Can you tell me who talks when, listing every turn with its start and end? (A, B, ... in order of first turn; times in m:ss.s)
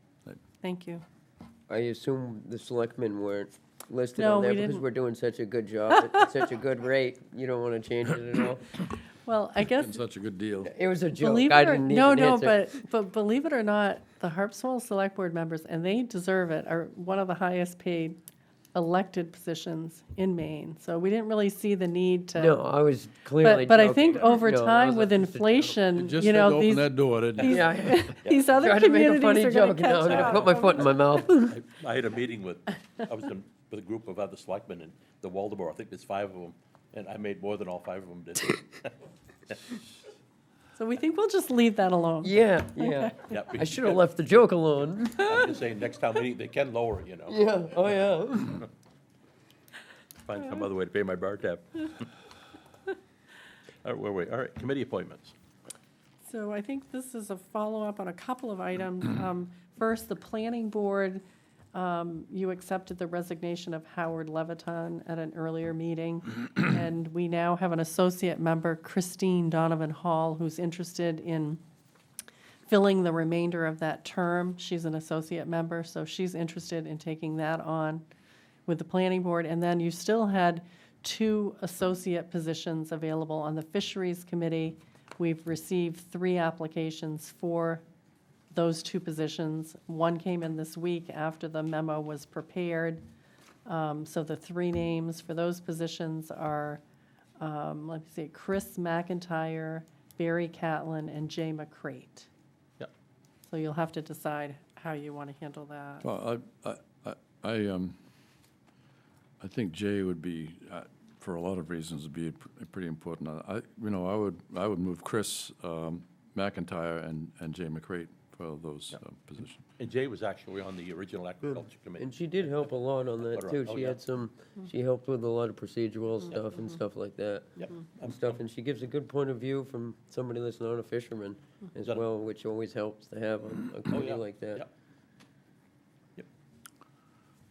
0:00.6-0:01.0 A
0:01.7-0:08.7 B
0:04.2-0:04.8 A
0:09.2-0:09.9 A
0:09.8-0:10.7 C
0:10.6-0:12.6 B
0:11.2-0:18.2 A
0:18.7-0:22.6 A
0:22.4-0:25.5 B
0:23.4-0:30.9 A
0:26.0-0:27.6 C
0:27.4-0:31.6 B
0:28.2-0:28.5 D
0:30.1-0:38.9 D
0:40.8-0:43.3 A
0:42.2-0:45.6 B
0:43.3-0:44.0 D
0:45.2-0:47.4 D
0:47.3-0:48.6 B
0:50.3-0:52.1 D
0:53.8-0:55.3 D
0:56.2-1:01.2 A
1:01.7-1:11.6 A
1:12.7-1:18.0 A
1:18.7-1:27.8 A
1:28.5-1:33.0 A
1:33.7-1:36.8 A
1:37.4-1:42.3 A
1:43.5-1:46.1 A
1:46.0-1:48.0 C
1:49.4-1:59.6 C
1:59.8-2:02.7 D
2:02.0-2:14.6 B
2:03.3-2:04.0 D
2:07.6-2:08.4 D
2:13.9-2:14.7 D